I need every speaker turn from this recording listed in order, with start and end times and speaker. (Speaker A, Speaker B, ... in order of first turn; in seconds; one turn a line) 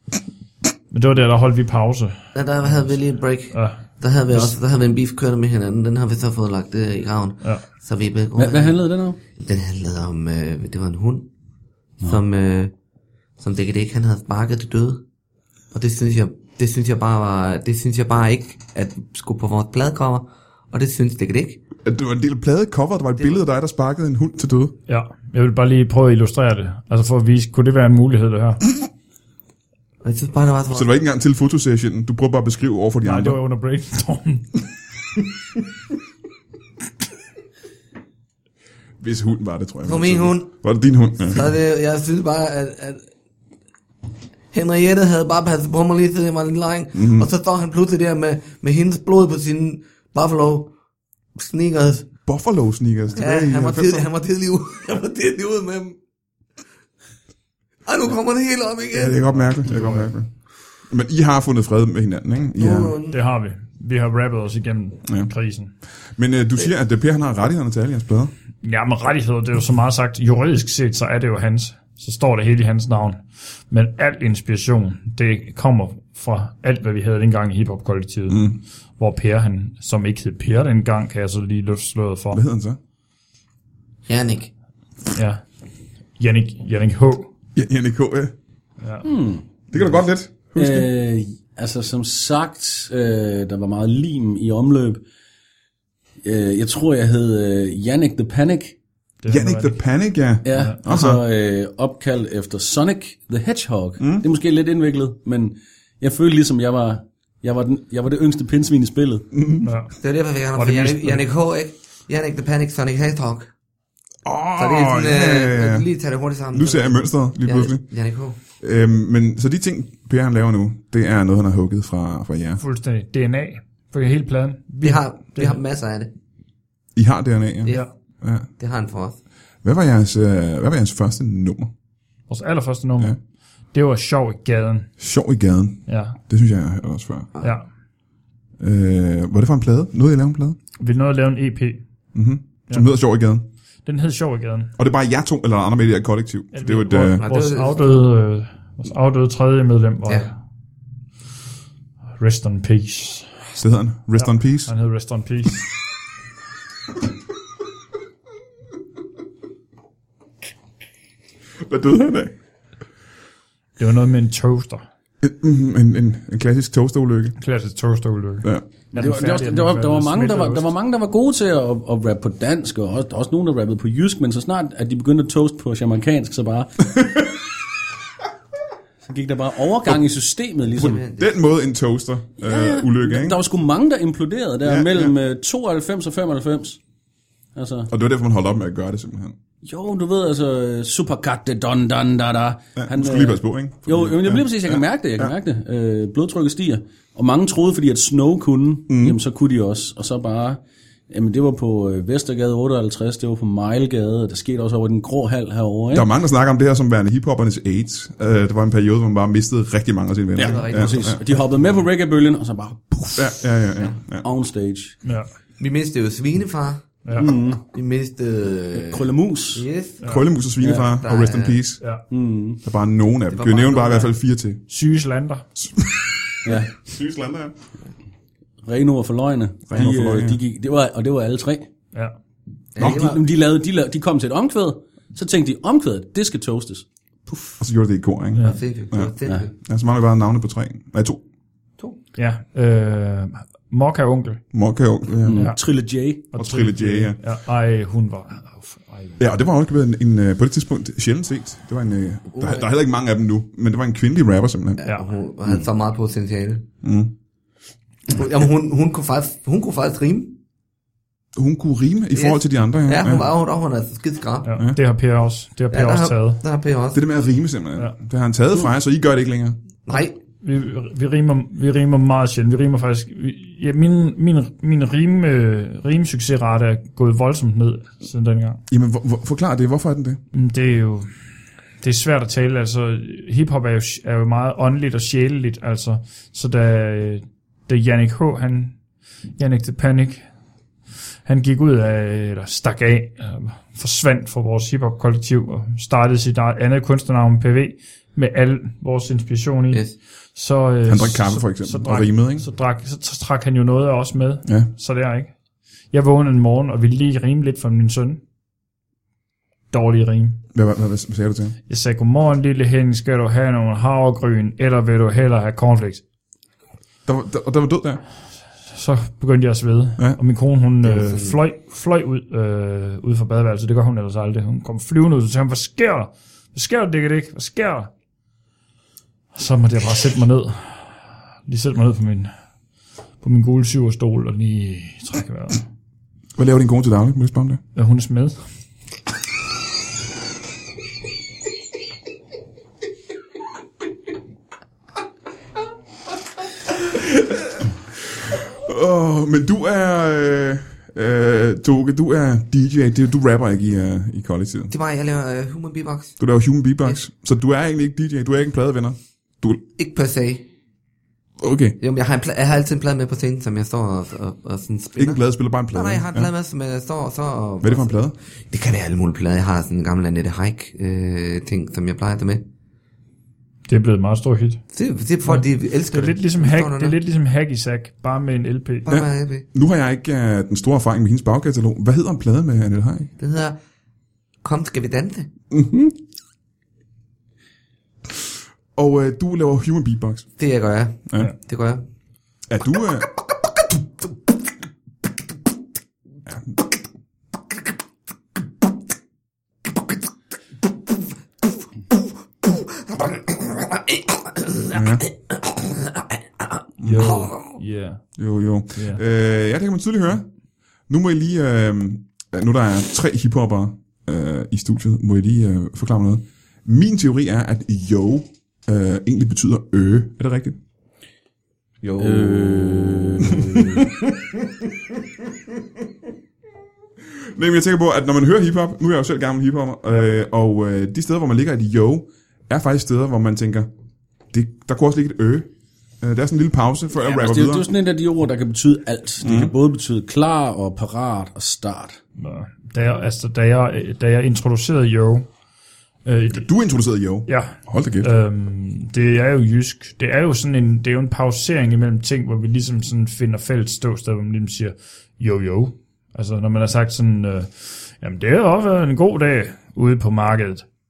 Speaker A: 0.9-2.9
Speaker B: 2.4-8.8
Speaker A: 3.5-4.5
Speaker C: 8.4-9.2
Speaker B: 9.4-11.3
Speaker B: 12.0-12.7
Speaker B: 13.4-15.0
Speaker B: 15.7-21.6
Speaker D: 21.9-24.8
Speaker A: 24.9-28.6
Speaker B: 30.0-30.9
Speaker D: 30.7-33.4
Speaker A: 33.0-34.6
Speaker D: 39.0-41.5
Speaker B: 39.9-40.5
Speaker B: 41.2-43.0
Speaker B: 44.5-50.7
Speaker D: 47.0-47.3
Speaker B: 51.4-52.1
Speaker D: 52.3-54.1
Speaker B: 53.2-56.0
Speaker B: 57.9-59.2
Speaker D: 58.9-60.3
Speaker A: 59.6-60.1
Speaker D: 60.9-63.0
Speaker B: 62.6-63.2
Speaker A: 63.1-65.7
Speaker D: 66.2-68.3
Speaker A: 68.6-82.4
Speaker D: 78.3-78.6
Speaker D: 82.3-82.8
Speaker B: 84.1-84.5
Speaker A: 85.1-85.4
Speaker A: 86.2-87.3
Speaker D: 87.5-88.3
Speaker A: 88.8-89.1
Speaker C: 89.0-89.5
Speaker D: 89.7-90.9
Speaker C: 90.6-95.0
Speaker C: 96.2-98.8
Speaker A: 99.2-99.8
Speaker D: 99.3-101.2
Speaker C: 100.4-109.3
Speaker A: 100.5-100.8
Speaker D: 104.0-104.2
Speaker D: 109.3-109.7
Speaker A: 109.6-110.0
Speaker B: 110.0-113.5
Speaker A: 110.5-111.2
Speaker D: 114.2-115.9
Speaker B: 114.6-118.4
Speaker D: 116.5-117.8
Speaker D: 118.6-122.6
Speaker A: 122.6-125.6
Speaker B: 124.8-126.1
Speaker D: 127.0-128.5
Speaker B: 128.6-129.2
Speaker D: 129.6-131.7
Speaker A: 132.3-133.2
Speaker A: 133.7-134.9
Speaker D: 135.0-137.3
Speaker A: 135.9-136.2
Speaker D: 138.6-140.6
Speaker A: 140.8-141.8
Speaker D: 142.2-143.5
Speaker A: 143.8-144.7
Speaker D: 144.8-147.2
Speaker A: 146.5-150.3
Speaker B: 147.2-147.9
Speaker A: 152.2-153.3
Speaker D: 153.6-154.7
Speaker A: 154.2-155.7
Speaker D: 161.6-162.3
Speaker A: 163.8-164.8
Speaker D: 165.2-167.4
Speaker A: 167.4-170.7
Speaker C: 168.9-176.8
Speaker D: 177.0-177.3
Speaker C: 179.0-181.0
Speaker B: 180.8-181.3
Speaker D: 181.1-183.4
Speaker C: 182.4-186.8
Speaker D: 184.7-185.1
Speaker C: 187.6-187.9
Speaker D: 187.9-189.4
Speaker C: 189.6-206.1
Speaker D: 192.8-195.3
Speaker D: 198.9-199.2
Speaker D: 205.9-211.2
Speaker C: 210.4-213.4
Speaker B: 210.4-211.4
Speaker D: 213.2-214.3
Speaker C: 214.2-215.0
Speaker B: 215.6-220.0
Speaker A: 217.1-217.3
Speaker C: 217.1-217.6
Speaker C: 218.7-219.7
Speaker A: 220.0-220.3
Speaker D: 220.1-221.8
Speaker C: 220.6-220.9
Speaker B: 220.8-221.6
Speaker C: 222.1-222.6
Speaker D: 222.6-224.6
Speaker B: 223.3-224.1
Speaker A: 224.7-225.5
Speaker D: 225.6-227.6
Speaker C: 226.4-226.7
Speaker C: 228.6-231.7
Speaker D: 229.7-230.4
Speaker B: 232.8-233.2
Speaker C: 232.8-237.6
Speaker D: 237.6-241.2
Speaker B: 238.4-239.5
Speaker A: 242.2-244.4
Speaker D: 244.5-245.5
Speaker C: 245.2-246.3
Speaker A: 246.3-249.2
Speaker D: 246.4-247.2
Speaker D: 249.2-254.8
Speaker B: 252.3-252.7
Speaker B: 254.8-256.7
Speaker D: 256.8-257.1
Speaker B: 258.1-260.4
Speaker D: 261.4-263.3
Speaker B: 262.1-264.5
Speaker A: 264.4-266.4
Speaker B: 265.7-267.0
Speaker D: 266.9-269.6
Speaker B: 269.9-270.2
Speaker A: 269.9-278.6
Speaker D: 278.7-280.2
Speaker A: 280.3-281.1
Speaker A: 281.8-288.8
Speaker A: 289.4-290.2
Speaker A: 291.2-305.3
Speaker D: 300.9-302.5
Speaker A: 305.9-308.2
Speaker A: 309.7-310.4
Speaker D: 310.5-311.6
Speaker A: 311.7-316.0
Speaker D: 317.1-318.0
Speaker A: 318.7-327.9
Speaker B: 320.8-321.4
Speaker A: 329.3-332.3
Speaker A: 333.2-335.6
Speaker D: 336.4-337.6
Speaker A: 337.8-338.4
Speaker D: 348.3-354.7
Speaker B: 354.7-356.2
Speaker D: 356.2-359.6
Speaker B: 359.8-360.4
Speaker D: 361.4-361.8
Speaker B: 361.8-365.2
Speaker D: 365.0-366.3
Speaker B: 365.7-372.4
Speaker D: 367.6-368.2
Speaker A: 373.7-374.6
Speaker B: 374.7-377.0
Speaker A: 375.2-378.9
Speaker B: 378.9-379.5
Speaker D: 378.9-383.1
Speaker B: 383.2-383.6
Speaker B: 384.4-385.3
Speaker D: 385.5-386.0
Speaker D: 388.8-390.3
Speaker B: 390.4-391.9
Speaker D: 392.5-393.2
Speaker B: 402.5-406.2
Speaker D: 404.7-405.1
Speaker D: 406.8-407.2
Speaker A: 406.8-408.0
Speaker B: 407.0-407.4
Speaker D: 408.2-410.3
Speaker A: 408.8-409.0
Speaker D: 410.9-420.6
Speaker B: 421.8-423.1
Speaker C: 422.0-423.9
Speaker D: 423.3-423.9
Speaker D: 427.2-433.7
Speaker D: 434.3-437.7
Speaker C: 437.0-442.0
Speaker D: 439.2-439.5
Speaker A: 442.2-445.3
Speaker A: 446.1-446.5
Speaker D: 446.3-448.1
Speaker A: 447.3-460.6